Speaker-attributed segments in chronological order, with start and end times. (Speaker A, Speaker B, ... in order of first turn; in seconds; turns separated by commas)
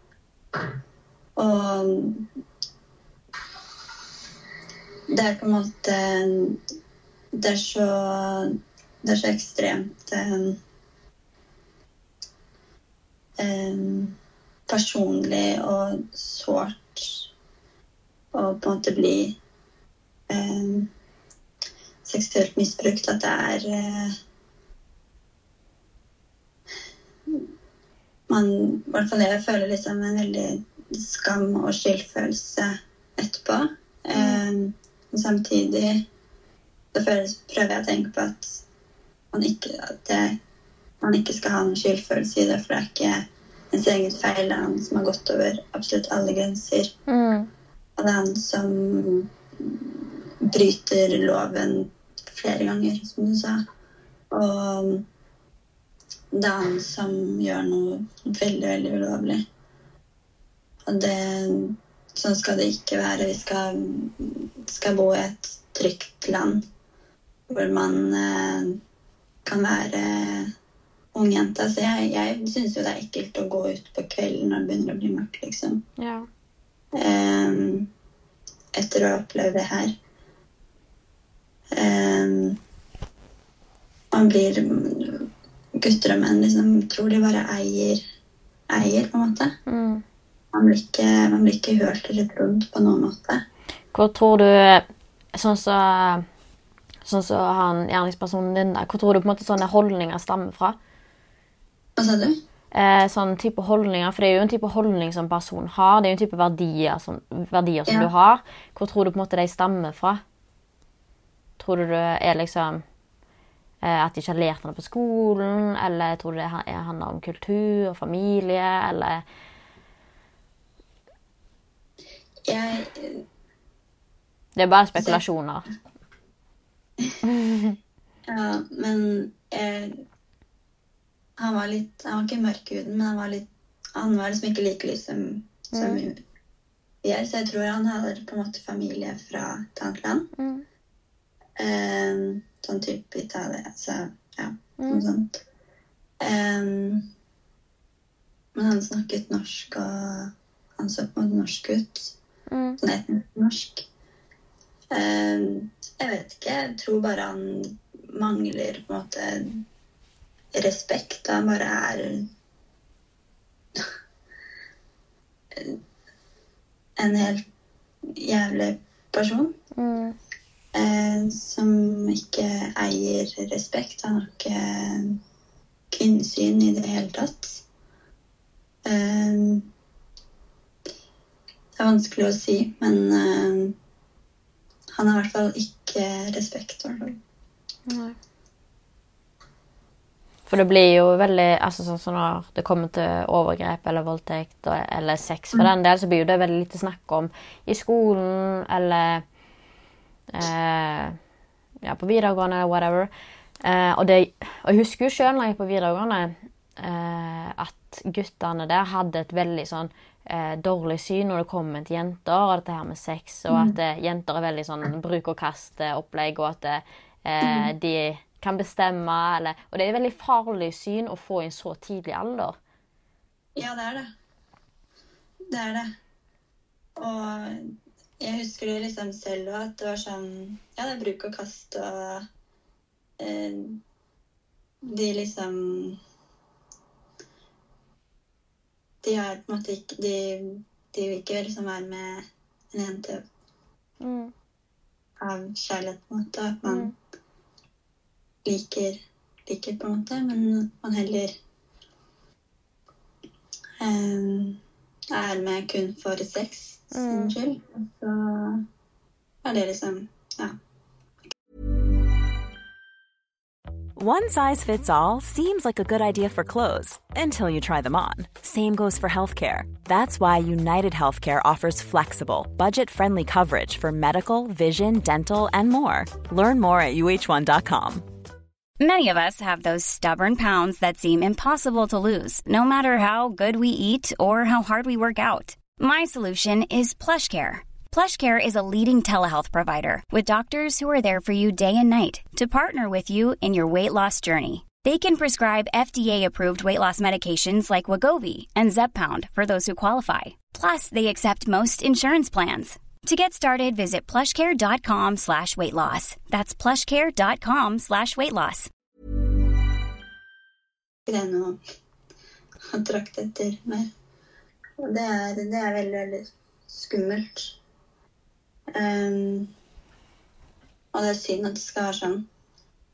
Speaker A: 1.4-2.2, Speaker A: 5.1-6.6, Speaker A: 7.3-10.6, Speaker A: 13.4-14.2, Speaker A: 14.7-17.3, Speaker A: 18.3-19.4, Speaker A: 20.3-20.9, Speaker A: 22.1-24.1, Speaker A: 28.3-36.0, Speaker B: 34.1-34.4, Speaker A: 36.9-38.6, Speaker A: 39.3-40.4, Speaker A: 41.0-46.9, Speaker B: 47.1-47.5, Speaker A: 48.0-53.6, Speaker A: 54.3-55.0, Speaker A: 56.3-59.4, Speaker A: 60.9-66.6, Speaker A: 67.5-68.8, Speaker A: 69.5-70.5, Speaker A: 71.1-75.8, Speaker B: 76.0-76.3, Speaker A: 77.0-77.9, Speaker A: 78.8-79.9, Speaker A: 81.7-82.6, Speaker A: 84.1-88.0, Speaker A: 88.7-89.6, Speaker B: 89.7-90.0, Speaker A: 90.5-93.4, Speaker B: 93.9-96.2, Speaker B: 97.0-100.8, Speaker A: 102.0-102.4, Speaker B: 102.7-110.2, Speaker B: 111.6-112.8, Speaker B: 113.8-119.2, Speaker A: 122.5-123.2, Speaker B: 124.6-125.7, Speaker A: 125.0-125.2, Speaker B: 127.2-127.8, Speaker A: 128.3-130.0, Speaker A: 131.4-136.2, Speaker B: 135.7-136.0, Speaker A: 137.0-140.3, Speaker B: 140.4-140.7, Speaker A: 141.6-145.4, Speaker B: 144.8-145.1, Speaker A: 146.2-147.1, Speaker A: 148.6-152.2, Speaker B: 152.5-152.8, Speaker A: 152.8-153.8, Speaker A: 154.9-159.6, Speaker A: 160.6-162.3, Speaker A: 167.0-167.4, Speaker A: 168.2-169.6, Speaker B: 169.8-170.2, Speaker A: 170.8-175.2, Speaker A: 175.9-177.6, Speaker A: 178.9-179.7, Speaker A: 181.8-183.8, Speaker A: 184.9-187.2, Speaker B: 187.9-188.2, Speaker B: 190.5-199.2, Speaker B: 200.3-201.2, Speaker B: 201.8-203.1, Speaker B: 203.6-222.6, Speaker A: 213.5-213.8, Speaker A: 217.4-217.7, Speaker A: 223.6-224.1, Speaker A: 225.5-225.9, Speaker A: 227.0-232.2, Speaker A: 233.2-233.8, Speaker A: 234.8-236.0, Speaker A: 239.0-243.2, Speaker B: 244.0-244.3, Speaker A: 245.2-246.9, Speaker B: 246.7-246.9, Speaker A: 248.5-251.3, Speaker A: 253.8-254.6, Speaker A: 255.1-258.6, Speaker B: 256.9-257.3, Speaker A: 259.4-260.6, Speaker C: 264.0-278.1, Speaker D: 278.8-308.7, Speaker A: 311.1-311.6, Speaker A: 312.7-313.9, Speaker A: 314.8-317.6, Speaker A: 318.7-319.5, Speaker A: 320.9-322.2